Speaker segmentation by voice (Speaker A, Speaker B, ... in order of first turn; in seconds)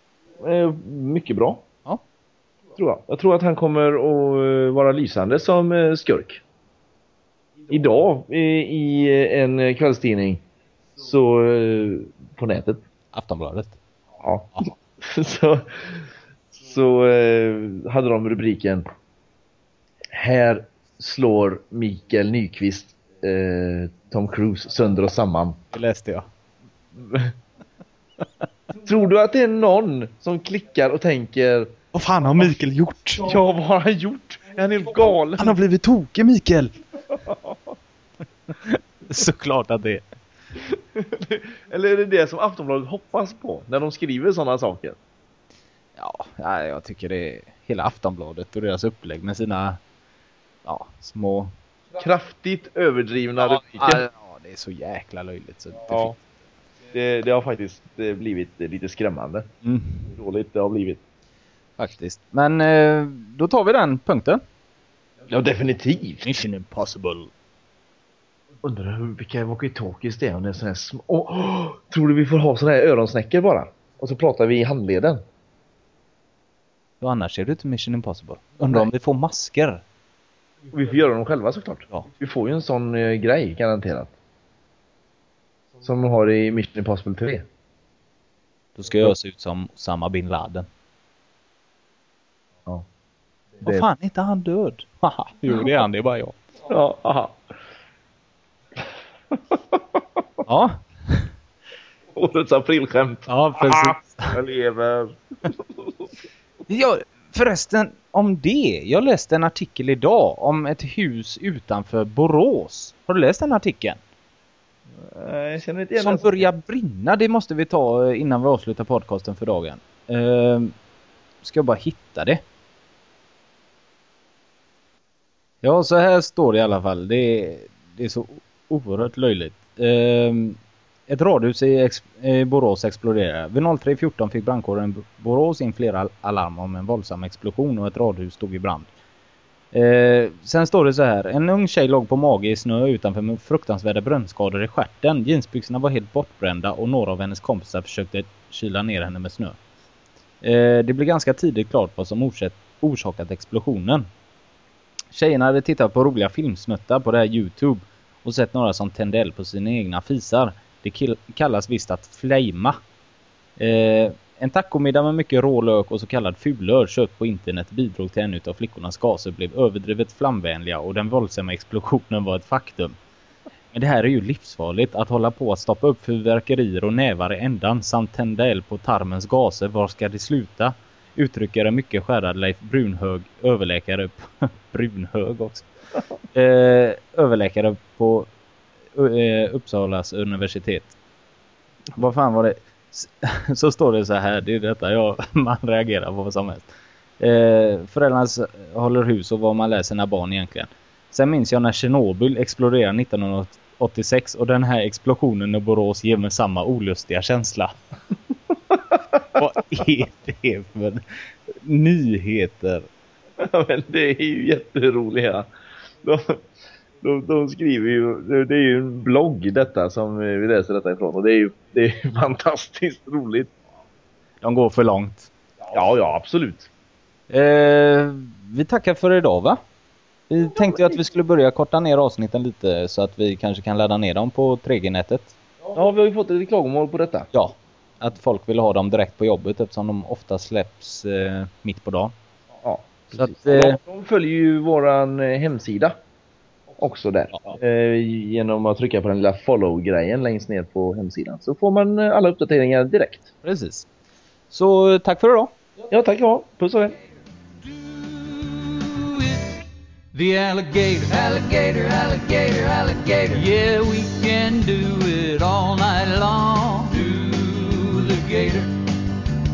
Speaker A: 0.4-1.7, 2.8-6.4, 7.7-10.4, 11.0-12.8, 14.2-16.0, 16.5-18.9, 20.1-25.6, 27.0-27.3, 28.8-31.7, 33.2-35.6, 37.1-37.6, 40.6-45.0, 52.0-54.0, 56.9-59.5, 60.1-61.0, 65.3-66.3, 68.6-75.2, 80.7-84.1, 85.8-87.5, 96.7-97.4, 99.4-100.0, 102.2-105.9, 115.0-116.5, 213.4-215.5, 216.0-216.4, 217.0-223.5, 225.7-226.7, 230.6-230.9, 235.7-237.3, 242.6-246.0, 246.8-253.3, 255.9-257.0
Speaker B: 13.1-13.8, 25.7-26.3, 31.9-33.3, 35.4-36.7, 38.6-40.0, 46.0-49.8, 50.6-51.5, 53.7-56.2, 59.6-60.1, 61.8-64.4, 66.2-67.3, 77.0-79.8, 88.8-90.7, 93.6-96.4, 100.5-101.3, 103.3-104.3, 106.7-114.0, 116.0-120.7, 121.4-122.4, 125.6-138.9, 139.7-149.6, 150.4-154.1, 155.1-162.8, 163.6-173.0, 173.7-185.7, 186.3-188.3, 188.9-190.9, 192.0-196.7, 197.2-207.7, 209.3-211.0, 211.6-212.9, 224.4-225.3, 227.3-229.6, 230.3-235.3, 237.3-242.2, 243.1-243.8, 253.4-253.9, 254.5-255.5
Speaker C: 257.6-268.8